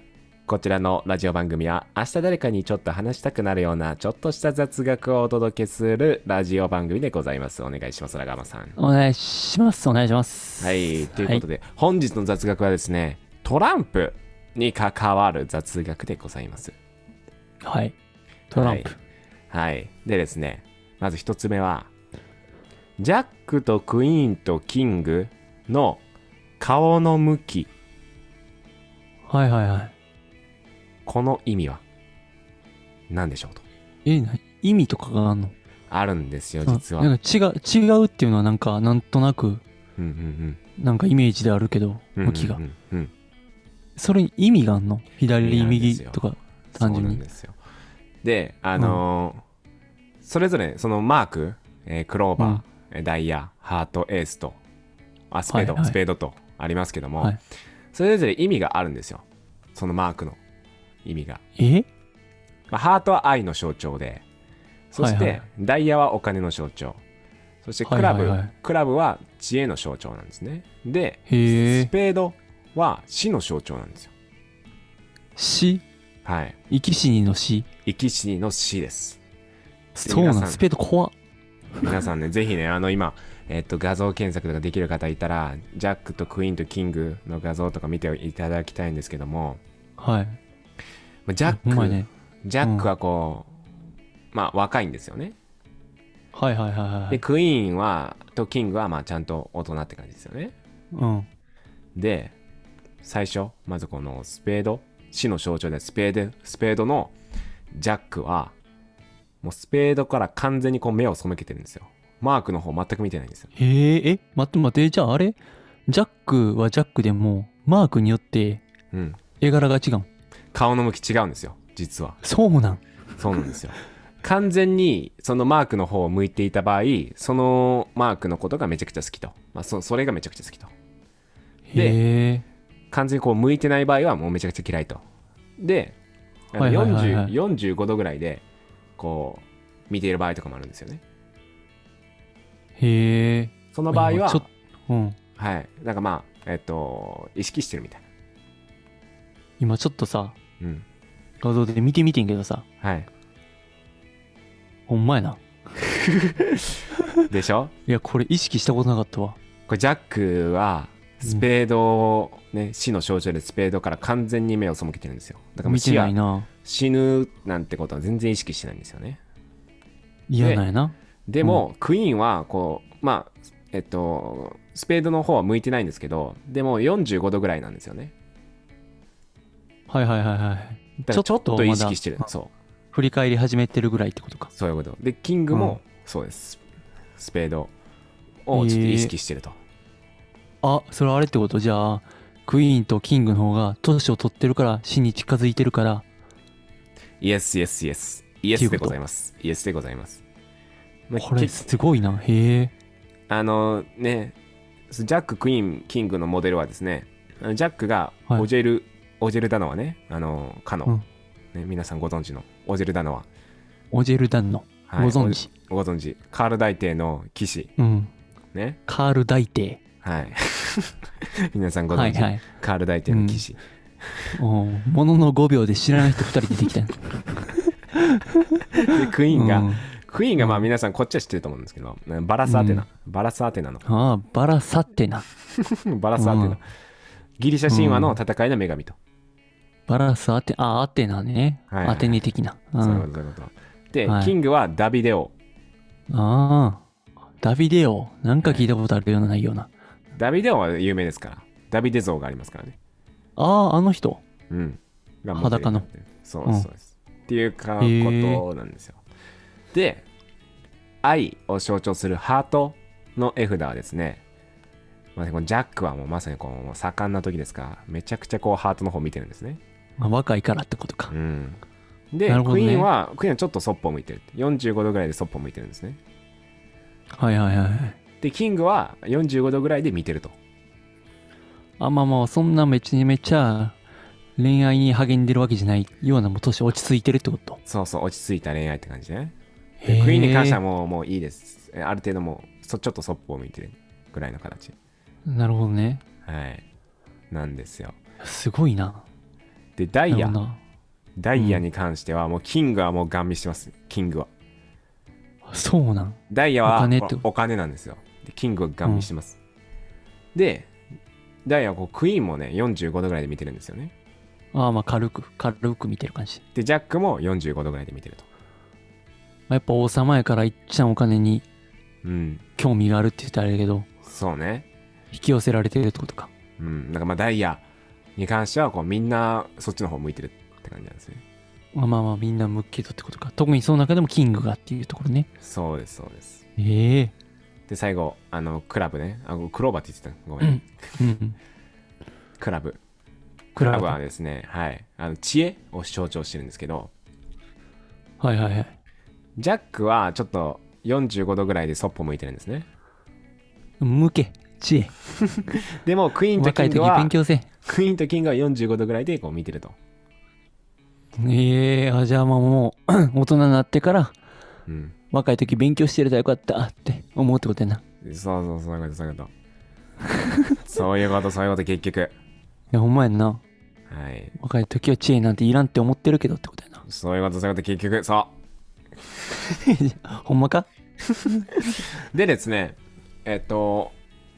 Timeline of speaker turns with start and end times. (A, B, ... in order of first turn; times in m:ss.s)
0:00.5-0:08.8 A
0:08.8-0:11.4 B
0:10.6-0:16.8 A
0:17.6-0:18.0 B
0:18.5-0:19.0 B
0:18.6-0:18.9 A
0:19.5-0:21.9 A
0:23.0-0:26.0 A
0:26.6-0:27.7 A
0:29.3-0:29.9 B
0:31.1-0:31.8 A
0:33.1-0:33.6 A
0:34.0-0:35.6 B
0:35.9-0:37.1 A
0:36.7-0:39.6 B
0:40.0-0:40.6 A
0:40.8-0:42.6 B
0:42.2-0:43.1 A
0:44.0-0:47.2 B
0:45.4-0:47.6 A
0:48.2-0:49.4 A
0:50.2-0:54.6 A
0:55.3-0:57.4 A
0:55.5-0:56.0 B
0:57.9-1:00.4 A
1:01.0-1:01.4 A
1:01.6-1:01.9 B
1:02.7-1:04.2 A
1:04.9-1:07.0 A
1:05.0-1:05.4 B
1:07.6-1:14.1 A
1:07.8-1:08.5 B
1:11.3-1:11.9 B
1:15.4-1:15.8 B
1:16.2-1:16.6 A
1:16.7-1:17.7 B
1:17.8-1:19.2 A
1:20.0-1:21.1 B
1:20.1-1:20.6 A
1:21.8-1:29.6 A
1:30.0-1:30.4 B
1:31.3-1:33.5 A
1:31.5-1:32.1 B
1:32.6-1:32.9 B
1:34.3-1:35.4 A
1:36.3-1:37.2 B
1:37.1-1:40.5 A
1:40.9-1:41.3 B
1:42.0-1:42.4 A
1:43.0-1:47.2 A
1:47.7-1:48.6 A
1:49.4-1:53.5 A
1:53.6-1:58.6 B
1:58.9-1:59.2 A
1:59.4-2:00.1 B
2:00.5-2:02.2 A
2:02.2-2:02.8 B
2:03.2-2:10.7 A
2:11.7-2:12.4 B
2:11.7-2:12.0 A
2:12.9-2:15.0 A
2:15.6-2:16.0 A
2:16.5-2:18.4 A
2:16.6-2:17.3 B
2:19.0-2:21.0 A
2:22.8-2:25.2 B
2:23.7-2:24.4 A
2:25.4-2:28.1 A
2:29.6-2:30.4 B
2:30.6-2:30.8 A
2:31.4-2:32.6 B
2:32.8-2:33.1 A
2:34.9-2:35.4 B
2:37.3-2:37.7 A
2:37.9-2:39.4 B
2:39.7-2:49.2 A
2:45.6-2:46.5 B
2:50.3-2:51.6 B
2:50.4-2:50.6 A
2:51.3-2:58.1 A
2:59.9-3:02.2 B
3:01.1-3:02.5 A
3:02.9-3:04.5 B
3:04.6-3:06.6 A
3:05.5-3:05.8 B
3:07.2-3:07.7 A
3:08.4-3:09.6 A
3:08.5-3:09.1 B
3:10.6-3:16.0 B
3:17.2-3:20.2 A
3:18.6-3:19.0 B
3:21.1-3:21.6 A
3:21.2-3:22.7 B
3:23.3-3:24.4 A
3:24.9-3:31.0 A
3:31.5-3:33.3 A
3:33.9-3:35.5 B
3:34.9-3:37.7 A
3:37.8-3:38.1 B
3:38.5-3:38.8 A
3:38.9-3:39.8 B
3:40.0-3:41.0 A
3:41.5-3:44.4 A
3:41.9-3:42.4 B
3:43.1-3:43.4 B
3:44.4-3:49.8 B
3:48.8-3:53.9 A
3:50.4-3:50.7 B
3:52.4-3:52.8 B
3:53.8-3:55.2 B
3:55.6-3:56.6 A
3:56.2-3:56.6 B
3:57.4-3:59.0 A
3:57.7-3:58.2 B
3:59.9-4:03.1 B
4:01.7-4:02.3 A
4:02.8-4:05.3 A
4:04.1-4:04.4 B
4:06.1-4:06.8 B
4:07.4-4:09.7 B
4:08.4-4:08.7 A
4:10.2-4:12.8 A
4:13.4-4:14.2 B
4:14.5-4:19.0 A
4:15.4-4:15.8 B
4:17.8-4:18.4 B
4:19.7-4:20.1 A
4:21.0-4:24.2 A
4:25.2-4:29.6 A
4:30.0-4:31.1 B
4:31.1-4:36.0 A
4:32.3-4:32.9 B
4:37.1-4:38.0 B
4:38.2-4:40.4 A
4:41.8-4:43.8 B
4:44.4-4:47.6 B
4:47.7-4:49.3 A
4:49.8-4:50.6 B
4:49.9-4:54.8 A
4:55.3-4:56.0 B
4:56.2-4:56.6 A
4:57.3-4:58.0 A
4:58.2-4:59.0 B
4:59.8-5:00.4 A
5:00.1-5:00.6 B
5:01.2-5:04.3 A
5:01.4-5:01.6 B
5:05.5-5:07.2 B
5:06.3-5:09.4 A
5:08.8-5:09.1 B
5:10.3-5:10.7 A
5:11.4-5:13.9 A
5:14.5-5:16.4 B
5:16.6-5:18.3 A
5:19.5-5:21.4 B
5:22.0-5:22.4 A
5:22.6-5:23.9 B
5:24.0-5:24.7 A
5:25.1-5:26.3 B
5:26.6-5:31.2 A
5:31.7-5:35.3 B
5:35.4-5:36.4 A
5:36.6-5:37.1 B
5:37.7-5:40.8 A
5:40.4-5:41.4 B
5:42.4-5:42.8 A
5:43.6-5:44.0 B
5:43.6-5:46.9 A
5:48.2-5:48.7 B
5:49.4-5:52.7 A
5:53.8-5:54.9 B
5:55.8-5:57.1 A
5:56.4-5:57.5 B
5:57.6-5:59.8 A
6:01.2-6:04.1 B
6:04.7-6:05.0 A
6:05.1-6:07.8 B
6:08.0-6:09.3 A
6:10.6-6:12.2 A
6:12.7-6:13.4 B
6:13.9-6:14.4 A
6:14.4-6:16.8 B
6:16.8-6:18.4 A
6:19.5-6:20.7 B
6:22.1-6:24.0 A